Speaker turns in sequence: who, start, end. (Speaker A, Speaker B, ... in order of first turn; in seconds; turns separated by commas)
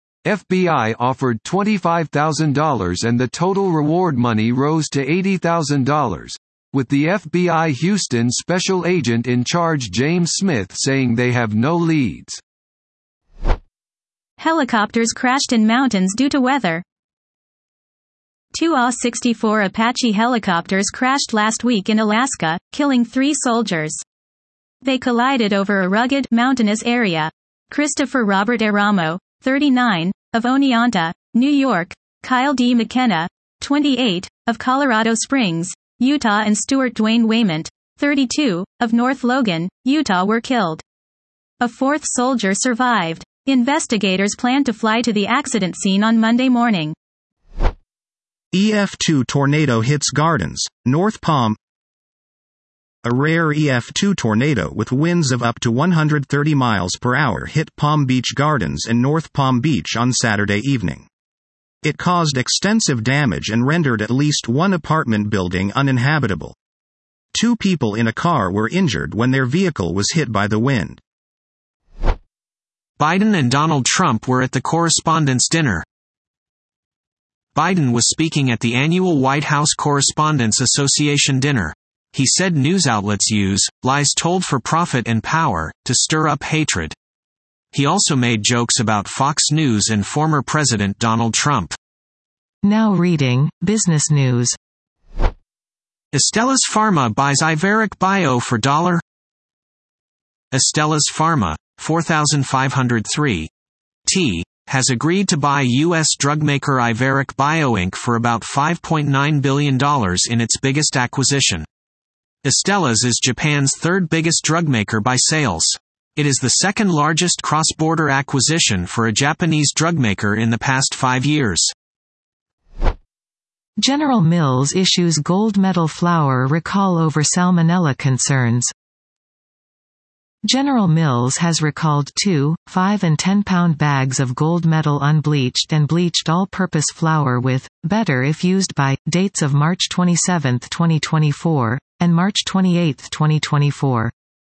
Speaker A: 0.2-12.4, Speaker B: 14.4-16.8, Speaker B: 18.5-24.0, Speaker B: 24.8-40.8, Speaker B: 41.6-47.0, Speaker C: 48.5-51.6, Speaker C: 53.0-61.1, Speaker C: 61.8-66.5, Speaker C: 67.3-71.0, Speaker D: 73.0-75.8, Speaker D: 77.5-87.0, Speaker D: 87.7-91.7, Speaker E: 92.6-94.5, Speaker D: 96.1-99.0, Speaker D: 100.5-103.5, Speaker D: 104.0-111.7, Speaker D: 112.4-121.7, Speaker E: 123.8-128.7, Speaker E: 130.4-144.1